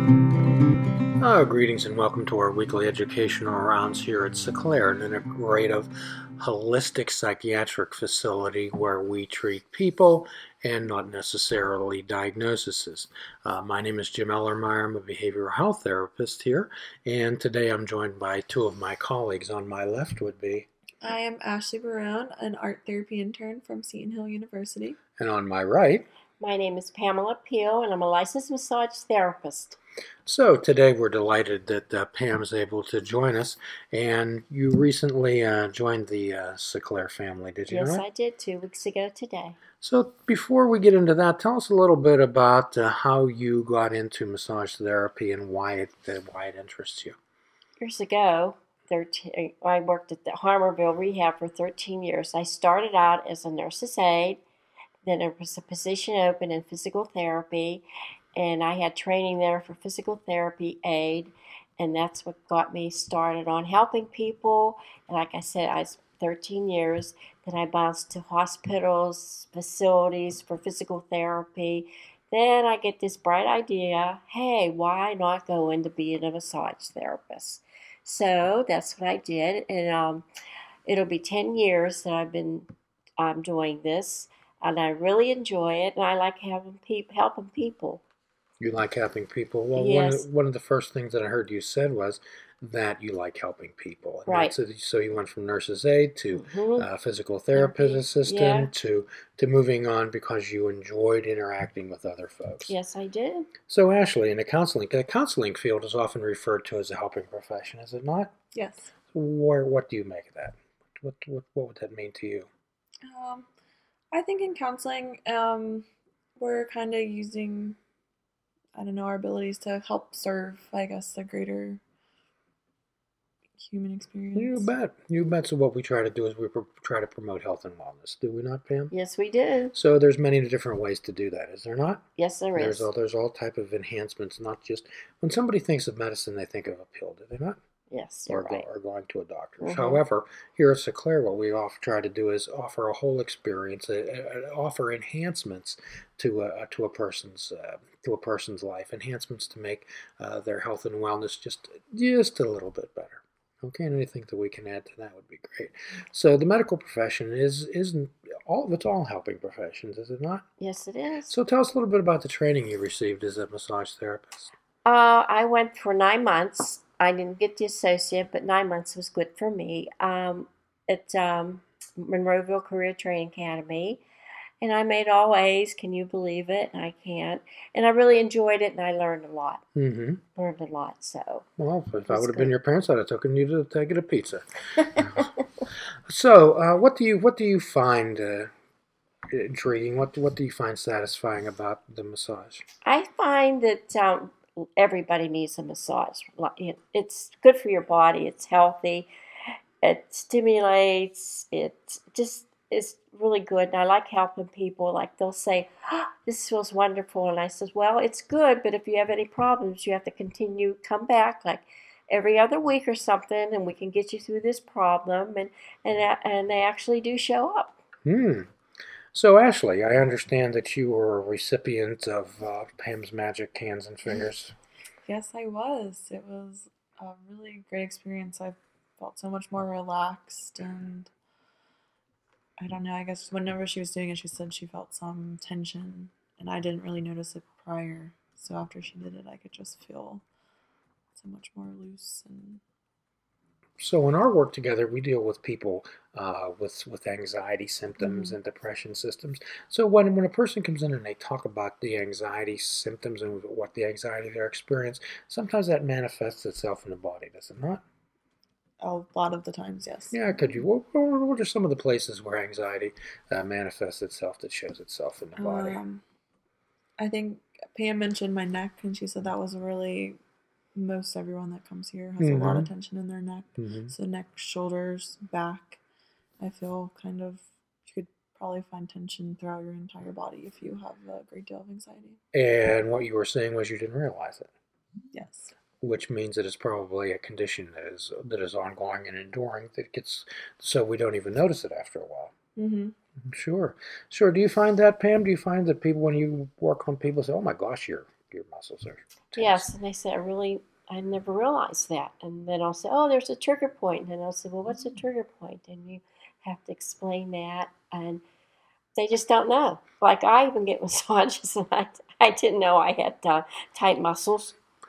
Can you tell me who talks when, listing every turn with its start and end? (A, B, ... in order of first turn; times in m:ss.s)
0:01.2-0:20.7 A
0:21.0-0:25.0 B
0:25.2-0:26.1 A
0:26.4-0:29.8 C
0:30.3-0:38.0 A
0:37.7-0:39.6 C
0:39.8-0:47.2 A
0:47.8-0:54.4 C
0:55.0-0:57.8 C
0:58.4-1:20.2 C
1:20.9-1:22.7 C
1:23.2-1:28.0 C
1:28.6-1:42.8 A
1:29.8-1:30.3 C
1:34.3-1:34.5 C
1:36.3-1:36.9 C
1:37.5-1:38.7 C
1:42.7-1:43.5 C
1:43.7-1:48.3 A
1:48.5-1:48.9 B
1:49.1-1:52.5 A
1:53.0-1:53.5 B
1:54.1-1:55.9 B
1:56.4-1:57.8 B
1:58.8-2:01.8 B
2:03.6-2:04.7 B
2:04.4-2:08.9 A
2:08.9-2:09.8 C
2:09.7-2:12.0 A
2:12.2-2:12.9 C
2:12.6-2:17.6 A
2:17.9-2:18.7 C
2:18.3-2:40.4 A
2:19.6-2:20.0 C
2:40.6-2:41.3 C
2:41.3-2:44.5 A
2:44.8-2:54.0 C
2:54.6-2:59.6 C
2:59.8-3:00.2 A
3:00.4-3:01.5 C
3:01.6-3:05.2 A
3:02.1-3:02.6 C
3:06.1-3:08.5 A
3:09.3-3:12.6 A
3:12.8-3:19.1 C
3:19.8-3:37.8 C
3:38.0-3:38.5 A
3:39.1-3:44.6 A
3:45.0-3:51.1 B
3:52.6-4:00.2 B
4:01.2-4:02.6 B
4:03.8-4:17.8 A
4:08.0-4:08.4 B
4:18.8-4:20.4 B
4:20.1-4:25.8 A
4:25.4-4:26.0 B
4:27.0-4:30.2 B
4:30.8-4:35.8 B
4:32.2-4:32.7 A
4:33.6-4:33.9 A
4:36.4-4:42.2 B
4:42.3-4:44.5 A
4:45.1-4:45.5 B
4:45.8-4:52.3 A
4:52.6-4:52.9 B
4:53.2-4:59.7 A
4:59.4-5:08.2 C
5:09.0-5:14.6 C